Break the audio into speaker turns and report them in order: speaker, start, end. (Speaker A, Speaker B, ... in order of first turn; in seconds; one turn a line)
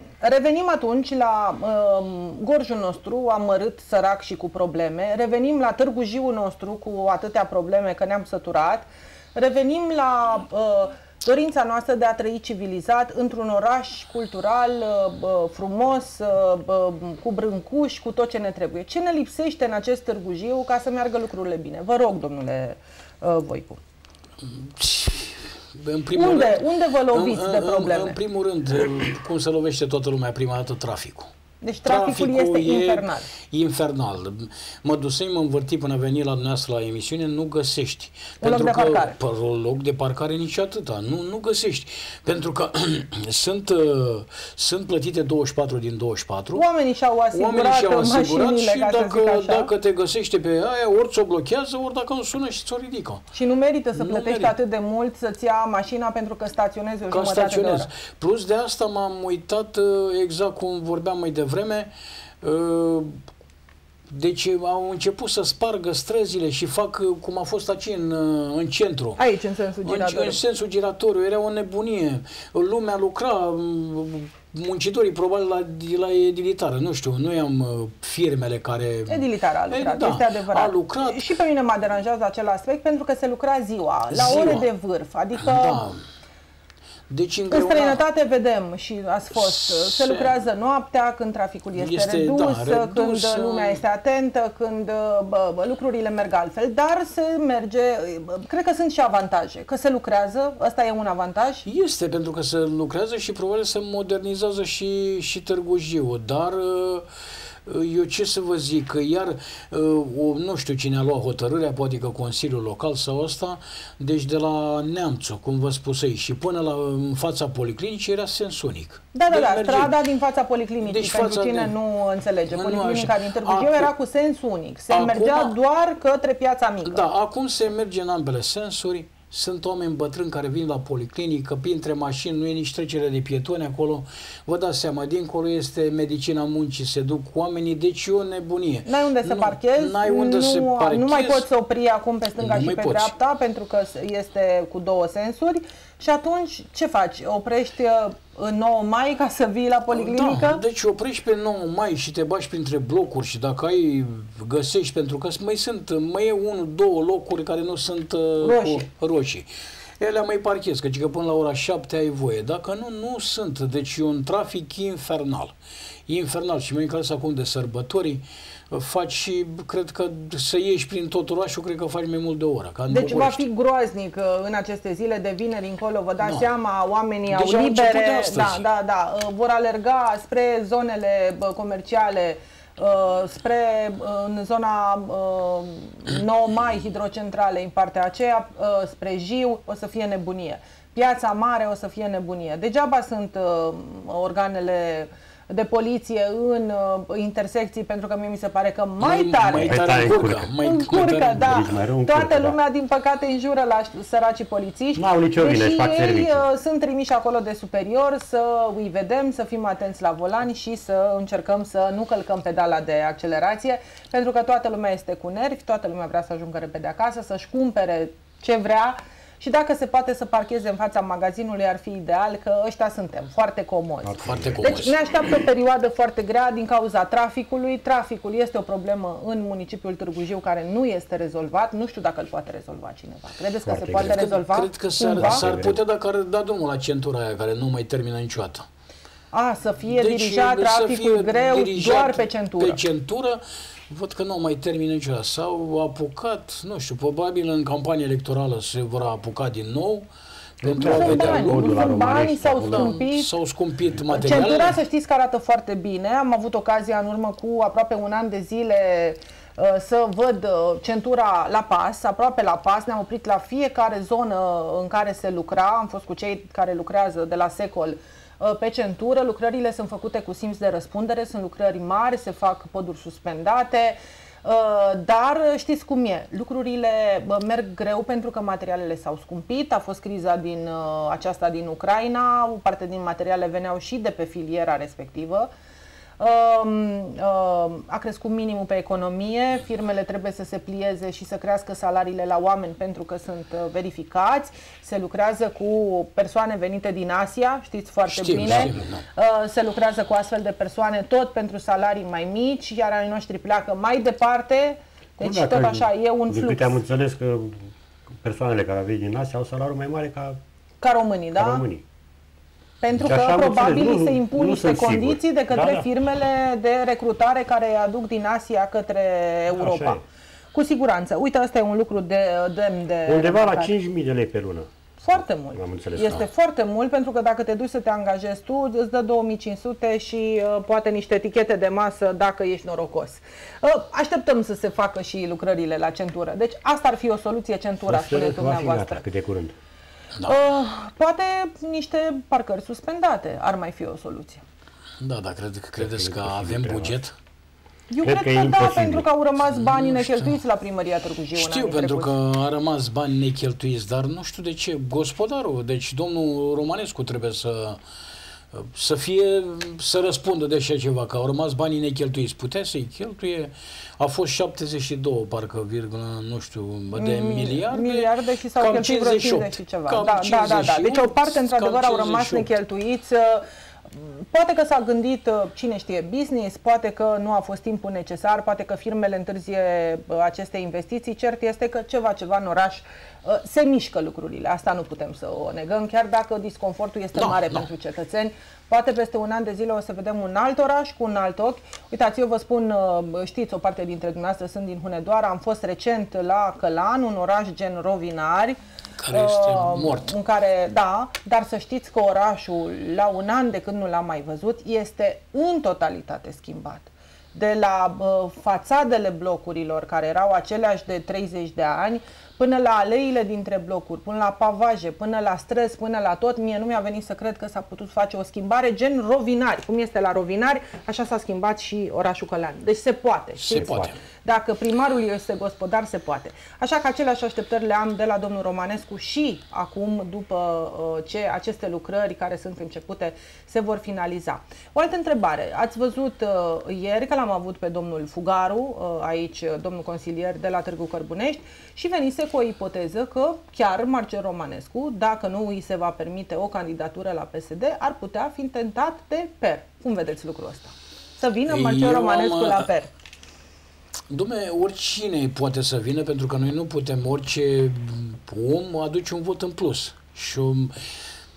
Speaker A: 0.2-23.8
Speaker B: 24.4-31.3
Speaker A: 26.1-28.2
Speaker A: 31.6-33.3
Speaker B: 31.8-46.7
Speaker A: 38.4-39.1
Speaker A: 46.5-49.7
Speaker B: 47.3-53.2
Speaker A: 53.3-57.9
Speaker B: 54.0-54.5
Speaker B: 57.1-61.9
Speaker B: 62.4-63.2
Speaker B: 64.1-69.2
Speaker A: 69.2-70.4
Speaker B: 69.8-81.3
Speaker A: 79.1-85.8
Speaker B: 84.1-84.7
Speaker B: 85.3-86.0
Speaker B: 87.1-88.0
Speaker A: 87.5-101.7
Speaker B: 89.3-90.3
Speaker B: 91.8-93.8
Speaker B: 101.7-107.0
Speaker B: 107.7-119.9
Speaker A: 119.1-127.0
Speaker B: 120.8-121.7
Speaker B: 122.5-123.9
Speaker B: 124.9-125.5
Speaker B: 126.8-141.5
Speaker A: 138.8-150.6
Speaker B: 142.4-143.1
Speaker B: 149.9-159.5
Speaker A: 158.4-158.8
Speaker B: 160.0-165.5
Speaker B: 166.1-173.4
Speaker A: 172.9-200.1
Speaker B: 176.2-176.5
Speaker B: 177.3-178.7
Speaker B: 199.0-201.6
Speaker C: 199.6-200.5
Speaker A: 200.6-235.4
Speaker C: 201.3-202.6
Speaker C: 204.9-206.4
Speaker C: 224.0-224.9
Speaker B: 224.2-225.0
Speaker C: 233.6-234.3
Speaker B: 234.0-238.7
Speaker C: 235.1-235.8
Speaker A: 239.3-242.8
Speaker B: 239.9-250.1
Speaker C: 250.6-253.0
Speaker B: 250.6-254.8
Speaker A: 250.8-253.3
Speaker A: 254.1-285.5
Speaker A: 286.2-306.8
Speaker B: 298.1-299.0
Speaker C: 298.5-298.7
Speaker C: 305.2-310.4
Speaker A: 310.8-311.6
Speaker C: 311.4-311.8
Speaker A: 312.8-320.0
Speaker C: 312.9-315.9
Speaker C: 319.6-320.0
Speaker A: 320.5-323.7
Speaker C: 323.1-326.2
Speaker A: 325.0-339.0
Speaker C: 337.8-339.5
Speaker A: 340.2-344.4
Speaker B: 345.0-347.1
Speaker C: 345.8-346.9
Speaker A: 347.9-352.1
Speaker C: 348.0-349.0
Speaker B: 349.5-350.4
Speaker B: 351.3-357.8
Speaker B: 358.5-372.5
Speaker A: 366.9-398.6
Speaker B: 387.1-387.6
Speaker B: 399.0-400.1
Speaker A: 399.1-452.9
Speaker B: 423.4-424.0
Speaker C: 423.5-423.9
Speaker B: 451.5-452.7
Speaker B: 454.1-460.7